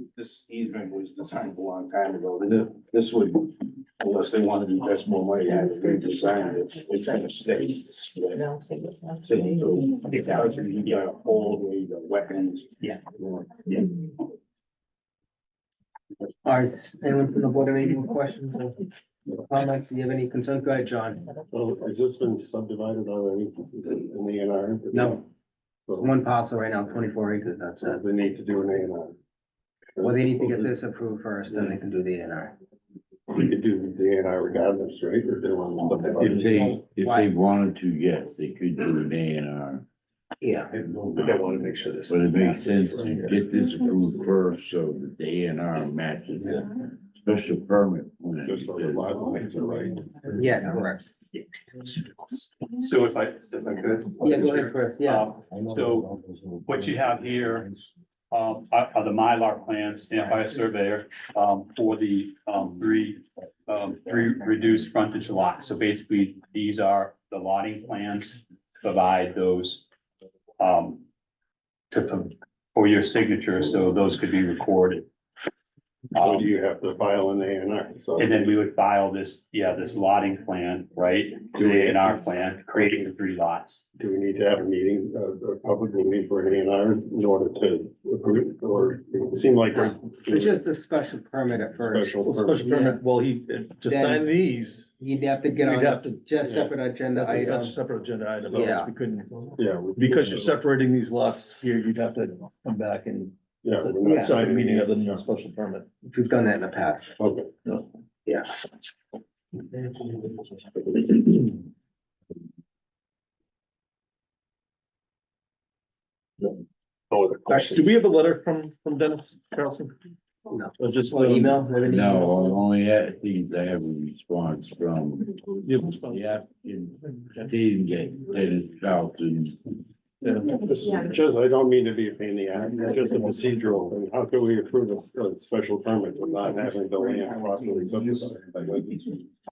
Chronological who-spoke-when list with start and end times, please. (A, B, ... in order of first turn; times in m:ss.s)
0:00.2-0:08.5 A
0:09.2-0:13.5 A
0:10.1-0:11.0 B
0:16.4-0:18.8 C
0:19.4-0:21.3 C
0:21.5-0:25.2 D
0:24.9-0:25.2 C
0:25.9-0:26.1 D
0:26.0-0:28.0 C
0:27.8-0:29.2 D
0:30.0-0:30.7 D
0:30.0-0:32.5 C
0:33.3-0:36.7 D
0:36.2-0:39.9 E
0:36.2-0:37.4 C
0:40.4-0:40.7 C
0:41.1-0:43.4 D
0:42.1-0:49.3 E
0:48.4-0:50.5 D
0:50.4-0:51.1 C
0:52.4-0:56.1 B
0:54.2-0:55.4 C
0:56.7-0:57.7 B
0:58.3-1:09.8 B
1:10.6-1:11.0 B
1:11.9-1:15.1 B
1:16.2-1:16.5 B
1:16.2-1:18.4 D
1:18.2-1:23.8 B
1:21.6-1:22.2 D
1:24.0-1:30.6 D
1:29.8-1:33.0 C
1:31.8-1:32.6 D
1:32.2-1:34.9 F
1:33.9-1:34.3 C
1:35.0-1:37.8 C
1:35.6-1:36.3 F
1:37.2-1:45.9 F
1:38.5-1:38.9 C
1:39.6-1:40.6 D
1:43.6-1:45.2 D
1:44.0-1:44.4 C
1:46.1-1:47.1 C
1:47.2-1:47.5 D
1:57.1-1:57.9 D
1:57.5-2:00.0 F
2:00.5-2:02.6 C
2:00.8-2:01.6 F
2:01.8-2:05.4 E
2:05.6-2:06.3 F
2:06.1-2:09.7 E
2:10.2-2:11.3 F
2:10.6-2:18.8 D